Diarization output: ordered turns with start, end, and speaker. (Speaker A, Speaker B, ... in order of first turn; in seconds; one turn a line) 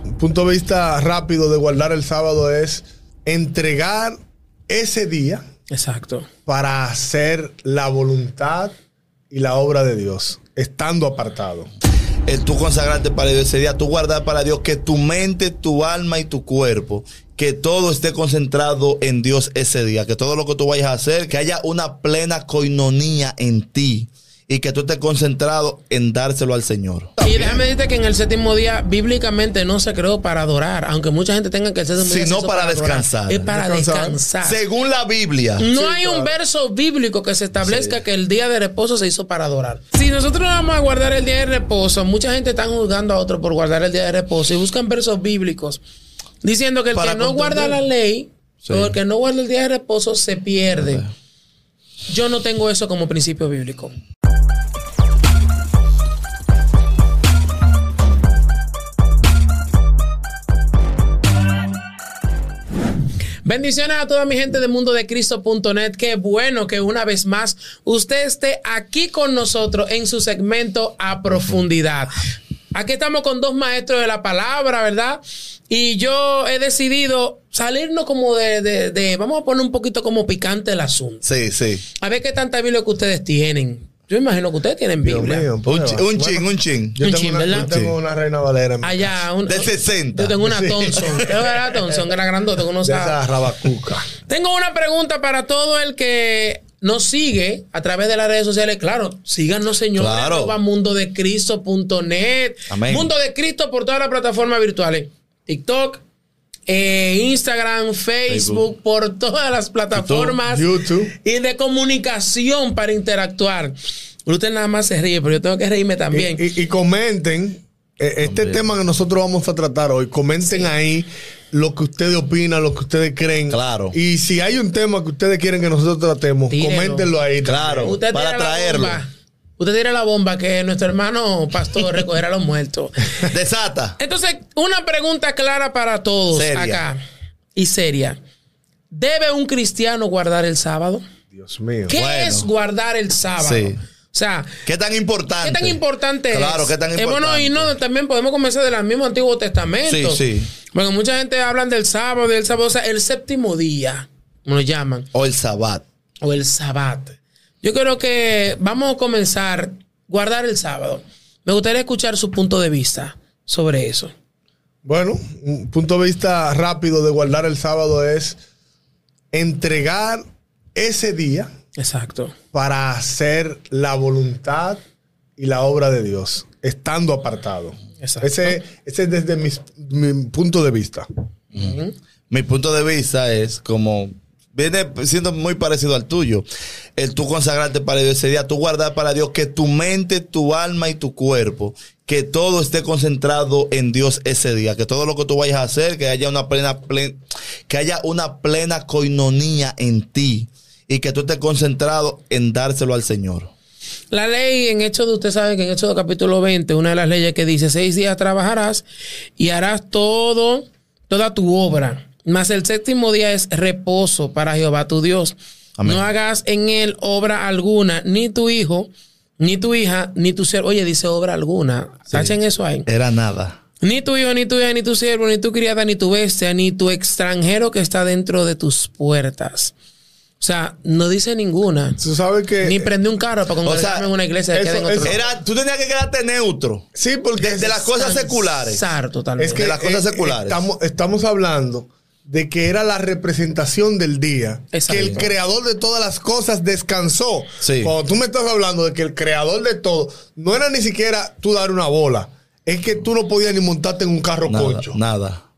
Speaker A: 0.2-4.2
Speaker A: 4.7-5.4
Speaker B: 5.7-6.3
Speaker A: 6.5-8.7
Speaker A: 9.3-11.7
Speaker C: 12.2-27.2
Speaker A: 27.2-27.6
Speaker B: 27.2-34.6
Speaker C: 32.0-33.5
Speaker A: 33.5-34.2
Speaker C: 34.4-35.7
Speaker B: 35.6-45.8
Speaker A: 35.6-36.3
Speaker C: 37.6-37.9
Speaker B: 46.4-51.0
Speaker C: 46.9-47.8
Speaker C: 48.6-48.9
Speaker C: 50.8-51.1
Speaker B: 52.1-53.9
Speaker B: 63.4-72.2
Speaker B: 72.7-81.2
Speaker C: 81.2-81.8
Speaker B: 82.0-85.5
Speaker A: 85.0-89.1
Speaker C: 85.7-87.0
Speaker B: 87.0-87.7
Speaker C: 87.5-87.9
Speaker B: 88.8-93.2
Speaker C: 89.5-90.4
Speaker A: 90.4-91.3
Speaker A: 92.8-94.1
Speaker B: 94.3-106.0
Speaker C: 100.0-100.5
Speaker C: 102.7-103.1
Speaker B: 106.7-110.7
Speaker C: 108.3-108.6
Speaker C: 109.9-110.4
Speaker A: 110.4-111.1
Speaker B: 111.2-113.7
Speaker B: 114.2-116.4
Speaker A: 116.1-128.0
Speaker C: 118.2-118.6
Speaker C: 123.5-124.0
Speaker B: 126.5-127.1
Speaker C: 127.4-129.0
Speaker B: 127.8-133.3
Speaker C: 133.2-134.0
Speaker B: 134.0-137.0
Speaker C: 136.3-136.8
Speaker B: 137.6-138.2
Speaker B: 138.9-141.0
Speaker A: 141.3-142.0
Speaker B: 141.9-144.6
Speaker C: 141.9-142.5
Speaker C: 143.4-143.8
Speaker C: 144.7-145.8
Speaker B: 145.4-155.1
Speaker C: 146.3-147.7
Speaker C: 149.9-150.5
Speaker C: 155.1-155.8
Speaker B: 156.2-164.1
Speaker A: 164.8-168.4
Speaker A: 169.3-170.2
Speaker A: 170.7-171.5
Speaker B: 171.8-172.3
Speaker A: 172.5-174.8
Speaker A: 175.4-181.1
Speaker B: 178.0-178.5
Speaker B: 181.5-181.9
Speaker C: 182.3-186.4
Speaker C: 186.9-203.5
Speaker B: 204.1-208.8
Speaker B: 209.4-222.9
Speaker C: 215.8-216.0
Speaker C: 222.8-223.6
Speaker B: 223.8-229.7
Speaker B: 230.4-232.0
Speaker A: 232.0-232.9
Speaker B: 232.6-235.2
Speaker C: 233.6-234.1
Speaker A: 234.5-235.2
Speaker C: 235.0-236.8
Speaker A: 236.9-237.8
Speaker C: 237.4-238.8
Speaker B: 237.6-239.7
Speaker A: 239.4-255.0
Speaker C: 239.5-240.6
Speaker B: 244.7-245.3
Speaker C: 247.6-247.9
Speaker C: 254.5-255.4